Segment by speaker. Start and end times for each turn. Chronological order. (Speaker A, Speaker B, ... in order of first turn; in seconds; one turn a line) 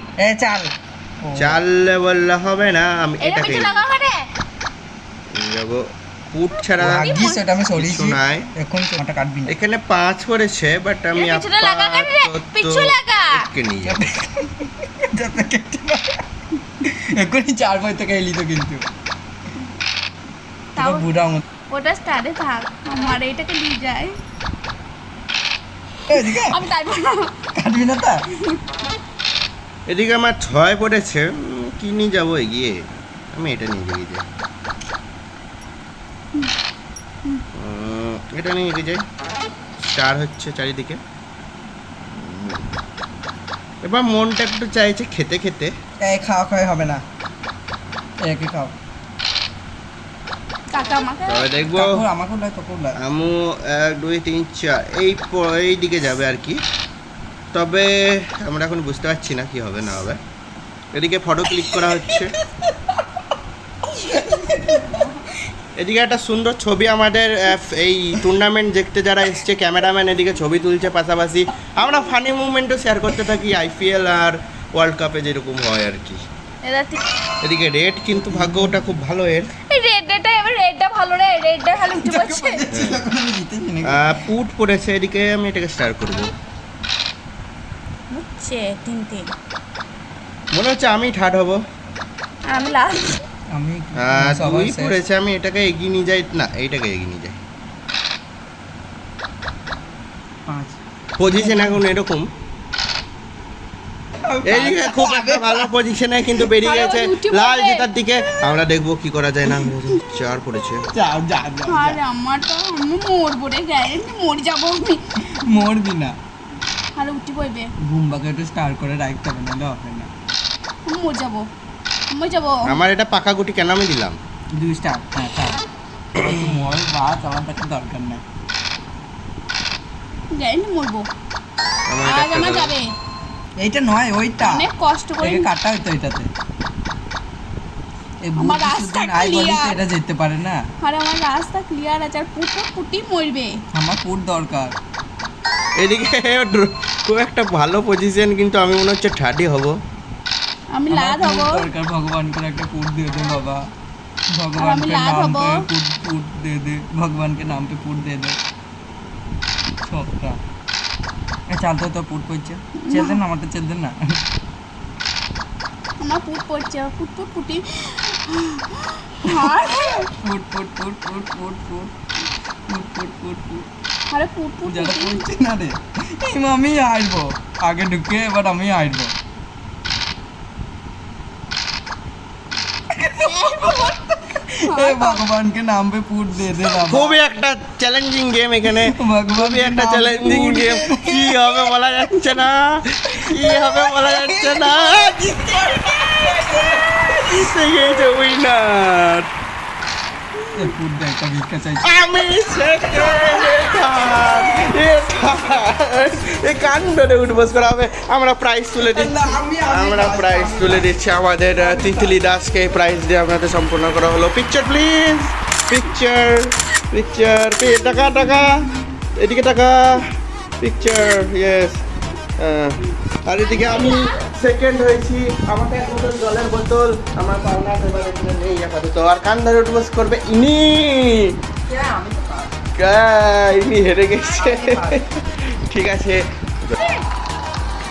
Speaker A: 0.2-1.6
Speaker B: 1.4-3.8
Speaker C: 3.2-4.2
Speaker B: 5.3-7.1
Speaker C: 6.6-7.4
Speaker A: 6.8-9.5
Speaker B: 7.8-8.5
Speaker B: 9.4-14.0
Speaker C: 11.1-13.4
Speaker A: 13.8-16.2
Speaker A: 16.8-18.9
Speaker C: 20.8-21.1
Speaker A: 20.8-21.4
Speaker C: 21.7-24.1
Speaker A: 26.1-26.6
Speaker C: 26.1-27.3
Speaker A: 27.6-28.2
Speaker C: 28.3-28.6
Speaker B: 29.9-32.8
Speaker B: 33.3-34.2
Speaker B: 37.5-39.0
Speaker B: 39.8-41.0
Speaker B: 42.1-42.7
Speaker B: 43.8-45.7
Speaker A: 46.0-47.0
Speaker A: 48.2-48.7
Speaker C: 50.7-51.5
Speaker B: 51.3-52.0
Speaker A: 51.7-53.0
Speaker B: 53.0-56.6
Speaker B: 57.5-60.2
Speaker B: 60.9-62.3
Speaker A: 61.5-62.7
Speaker A: 64.0-65.1
Speaker C: 64.1-65.2
Speaker B: 65.8-76.2
Speaker C: 76.6-77.0
Speaker B: 77.4-79.5
Speaker A: 78.1-78.9
Speaker C: 79.7-82.6
Speaker A: 82.0-84.2
Speaker B: 82.7-83.0
Speaker B: 83.8-86.3
Speaker C: 88.1-89.3
Speaker B: 90.5-91.6
Speaker C: 92.5-93.2
Speaker A: 93.5-95.0
Speaker B: 94.0-97.4
Speaker A: 100.5-101.8
Speaker B: 101.2-102.3
Speaker A: 104.2-105.7
Speaker B: 104.4-110.9
Speaker C: 106.6-107.8
Speaker A: 110.9-112.0
Speaker C: 111.7-115.0
Speaker A: 115.3-116.2
Speaker C: 117.0-117.7
Speaker A: 117.8-120.1
Speaker C: 120.8-121.5
Speaker C: 122.1-122.6
Speaker B: 122.7-124.2
Speaker A: 124.5-125.6
Speaker A: 126.2-128.2
Speaker C: 130.3-131.1
Speaker B: 131.9-132.7
Speaker C: 132.0-132.9
Speaker A: 133.6-134.7
Speaker C: 134.4-135.5
Speaker A: 135.2-136.3
Speaker A: 138.2-140.6
Speaker C: 138.4-139.8
Speaker C: 140.8-143.5
Speaker A: 143.7-144.7
Speaker B: 145.8-149.7
Speaker C: 150.7-151.6
Speaker A: 150.9-153.6
Speaker A: 154.3-158.4
Speaker C: 154.6-155.6
Speaker A: 159.8-160.4
Speaker A: 161.5-164.2
Speaker C: 162.8-163.2
Speaker C: 166.0-170.1
Speaker A: 169.2-171.9
Speaker A: 172.7-173.7
Speaker C: 174.1-175.2
Speaker A: 174.7-179.1
Speaker A: 182.9-187.2
Speaker C: 183.2-183.9
Speaker C: 184.6-185.2
Speaker B: 186.8-196.1
Speaker A: 188.7-191.6
Speaker A: 193.2-197.4
Speaker B: 197.1-199.3
Speaker A: 200.5-201.8
Speaker B: 201.8-220.1
Speaker A: 203.0-203.5
Speaker A: 208.8-210.9
Speaker A: 211.6-212.2
Speaker B: 220.6-221.8
Speaker B: 222.4-231.3
Speaker C: 223.4-224.2
Speaker A: 231.7-232.5
Speaker B: 232.8-236.7
Speaker A: 234.1-235.0